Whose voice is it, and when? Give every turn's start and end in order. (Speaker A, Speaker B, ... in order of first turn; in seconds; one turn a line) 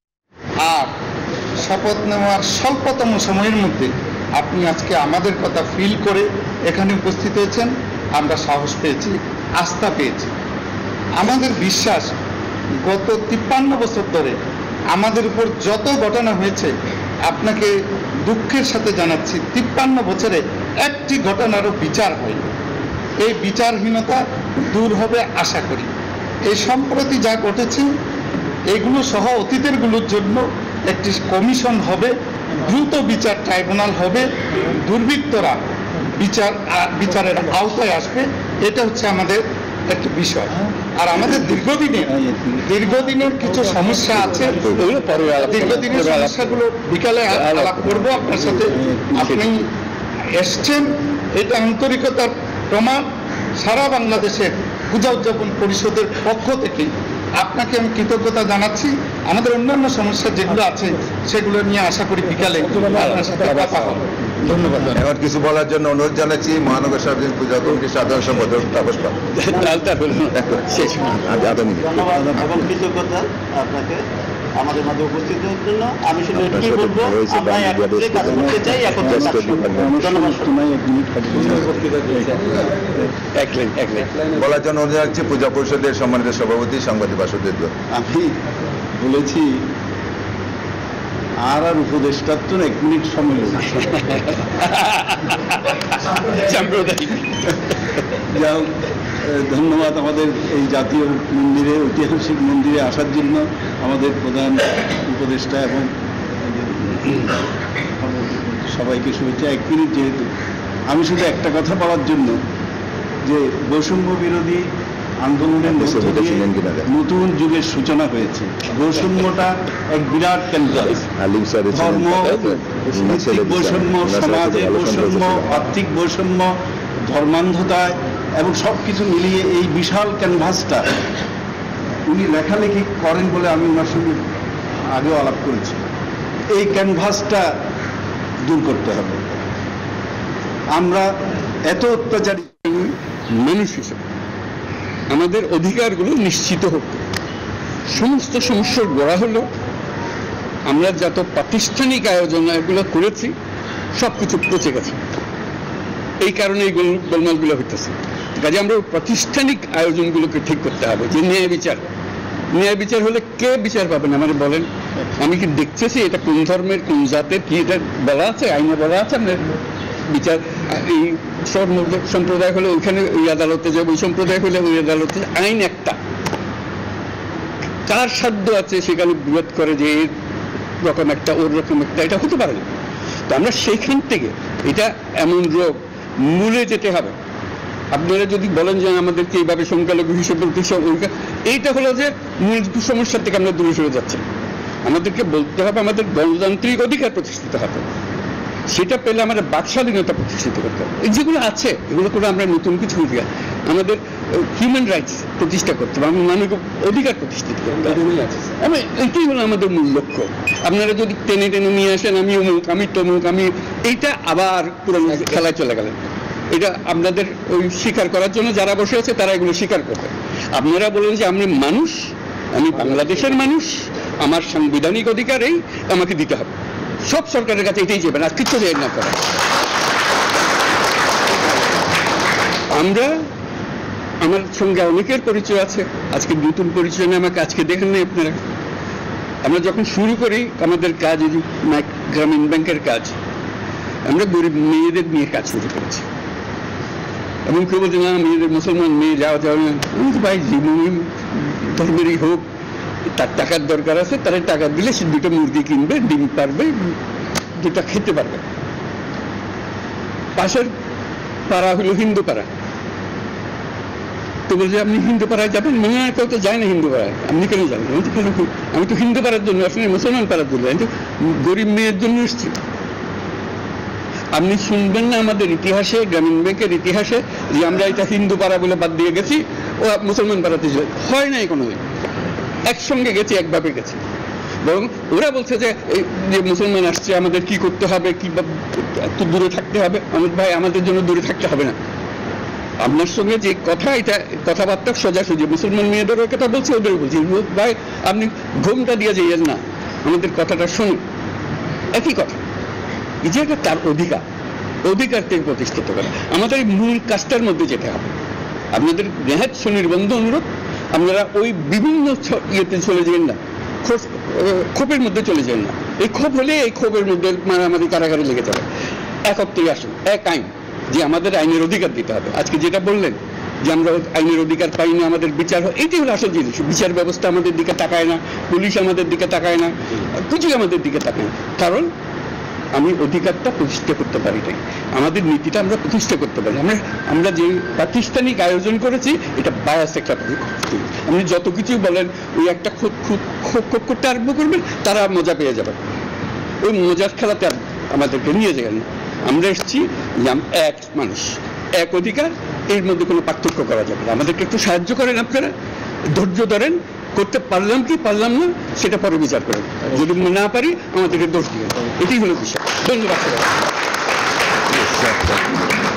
Speaker A: 0.6-0.9
Speaker A: 1.6-10.3
Speaker A: 11.2-12.1
Speaker A: 12.8-14.3
Speaker A: 14.9-16.7
Speaker A: 17.2-17.7
Speaker A: 18.2-22.4
Speaker A: 23.2-25.9
Speaker A: 26.5-27.9
Speaker A: 28.7-35.5
Speaker A: 36.1-42.1
Speaker B: 42.1-42.7
Speaker A: 42.7-44.8
Speaker C: 44.8-46.6
Speaker A: 45.4-49.6
Speaker C: 47.3-48.3
Speaker B: 48.7-49.3
Speaker C: 49.2-49.5
Speaker A: 50.3-53.0
Speaker A: 53.6-65.0
Speaker C: 62.7-64.0
Speaker D: 64.9-69.2
Speaker C: 69.3-71.4
Speaker D: 70.9-72.1
Speaker E: 71.3-74.0
Speaker B: 72.1-72.7
Speaker E: 74.5-80.5
Speaker D: 76.3-80.0
Speaker B: 78.2-82.9
Speaker C: 83.3-84.3
Speaker D: 84.3-87.7
Speaker B: 87.9-88.3
Speaker B: 89.0-89.5
Speaker B: 91.4-93.7
Speaker C: 93.8-97.5
Speaker B: 98.3-105.9
Speaker B: 106.4-107.3
Speaker B: 108.0-110.3
Speaker B: 110.9-112.3
Speaker B: 113.2-114.7
Speaker B: 115.2-121.0
Speaker D: 115.6-116.9
Speaker D: 121.0-125.6
Speaker B: 121.7-126.5
Speaker B: 127.1-130.9
Speaker B: 132.1-134.2
Speaker B: 134.9-135.8
Speaker B: 136.5-137.5
Speaker B: 138.4-139.2
Speaker B: 140.7-141.1
Speaker B: 141.7-142.5
Speaker C: 142.6-144.0
Speaker C: 145.1-147.0
Speaker C: 147.9-149.5
Speaker C: 150.7-153.3
Speaker C: 153.9-155.0
Speaker C: 156.2-161.8
Speaker C: 162.5-164.7
Speaker C: 165.2-169.4
Speaker C: 170.1-176.0
Speaker C: 177.9-180.1
Speaker C: 180.8-182.7
Speaker C: 183.3-187.1
Speaker C: 187.9-194.2
Speaker C: 194.8-197.8
Speaker C: 198.7-215.9
Speaker C: 216.5-226.5
Speaker C: 227.1-229.2
Speaker C: 232.7-233.1
Speaker C: 234.2-238.4
Speaker C: 239.4-243.1
Speaker C: 244.1-246.0
Speaker C: 247.5-252.4
Speaker C: 253.1-256.9
Speaker C: 257.6-258.4
Speaker C: 260.4-260.7
Speaker C: 261.5-262.5
Speaker C: 264.5-272.6
Speaker C: 274.3-281.8
Speaker C: 282.6-284.0
Speaker C: 284.6-291.7
Speaker C: 292.8-301.0
Speaker C: 301.9-302.4
Speaker C: 303.2-304.2
Speaker C: 304.8-308.1
Speaker C: 308.7-318.7
Speaker C: 319.3-331.9
Speaker C: 332.7-345.8
Speaker C: 346.6-355.5
Speaker C: 356.1-363.5
Speaker D: 364.7-365.5